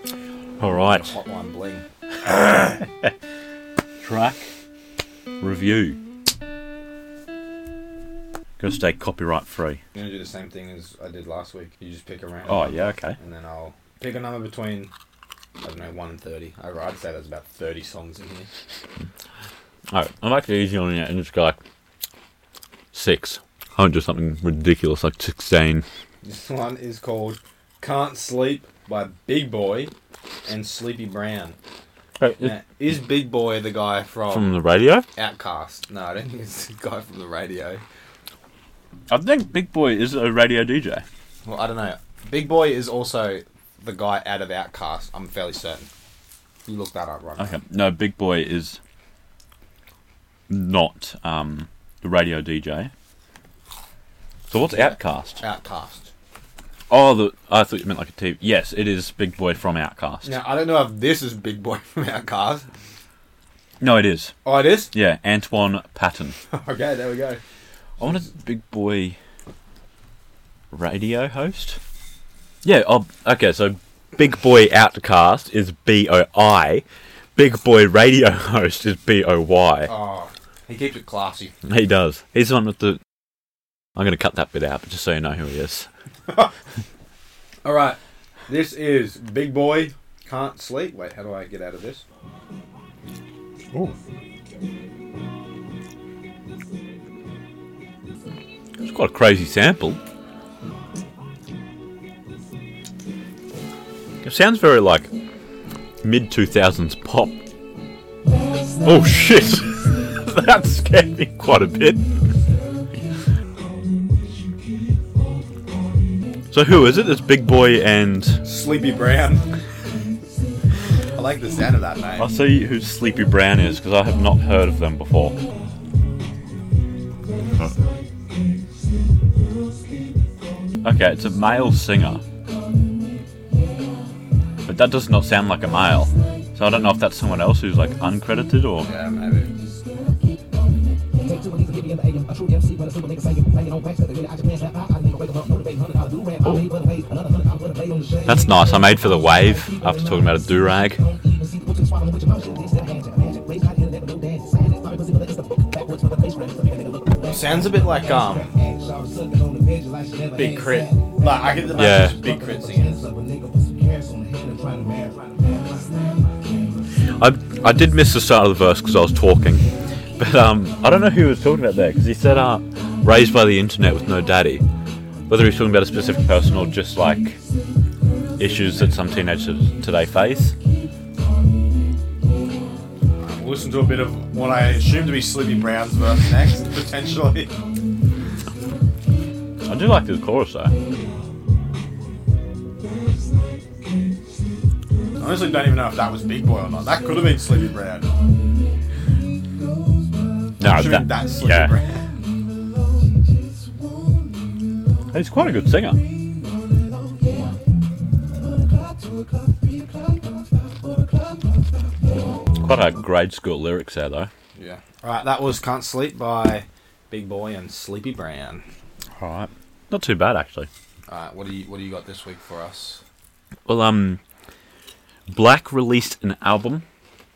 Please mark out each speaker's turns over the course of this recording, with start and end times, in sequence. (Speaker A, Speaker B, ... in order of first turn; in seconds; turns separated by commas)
Speaker A: 0.6-1.1, Speaker B: 0.9-1.8, Speaker A: 2.2-2.9, Speaker A: 4.0-4.5, Speaker A: 5.4-6.0, Speaker A: 8.6-9.8, Speaker B: 9.9-14.9, Speaker A: 12.5-13.2, Speaker B: 15.6-18.5, Speaker A: 19.9-21.6, Speaker A: 22.9-25.8, Speaker B: 26.2-29.9, Speaker B: 30.4-31.6, Speaker A: 32.2-32.5, Speaker B: 32.4-34.5, Speaker A: 34.3-35.0, Speaker B: 35.1-37.8, Speaker A: 39.1-41.0, Speaker B: 41.4-45.9, Speaker B: 46.6-47.6, Speaker A: 47.4-48.8, Speaker A: 50.5-52.9, Speaker A: 54.5-55.4, Speaker B: 54.6-56.1, Speaker A: 56.9-60.3, Speaker B: 60.2-62.6, Speaker A: 63.8-64.4, Speaker B: 64.4-64.9, Speaker A: 64.9-66.4, Speaker B: 66.5-67.4, Speaker A: 68.0-69.2, Speaker A: 70.7-71.8, Speaker A: 72.6-76.8, Speaker A: 77.3-79.9, Speaker B: 79.9-81.5, Speaker A: 81.7-83.0, Speaker A: 84.0-85.9, Speaker B: 87.6-92.0, Speaker A: 98.8-100.0, Speaker A: 104.2-105.1, Speaker A: 106.0-107.4, Speaker A: 108.8-112.1, Speaker A: 116.5-118.4, Speaker B: 118.4-119.5, Speaker B: 121.1-122.3, Speaker A: 122.2-125.4, Speaker A: 130.8-132.2, Speaker A: 134.7-138.9, Speaker B: 138.8-139.5, Speaker A: 148.2-151.0, Speaker B: 157.2-158.5, Speaker B: 160.3-163.1, Speaker A: 161.7-162.2, Speaker A: 167.2-174.6, Speaker A: 175.3-177.4, Speaker A: 178.4-180.6, Speaker B: 183.2-187.5, Speaker A: 189.7-190.7, Speaker B: 195.2-198.1, Speaker A: 200.6-201.8, Speaker B: 200.6-202.0, Speaker A: 205.1-206.0, Speaker A: 212.6-214.3, Speaker B: 214.5-218.6, Speaker A: 219.2-220.7, Speaker B: 221.1-223.0, Speaker A: 223.7-224.2, Speaker A: 225.3-226.8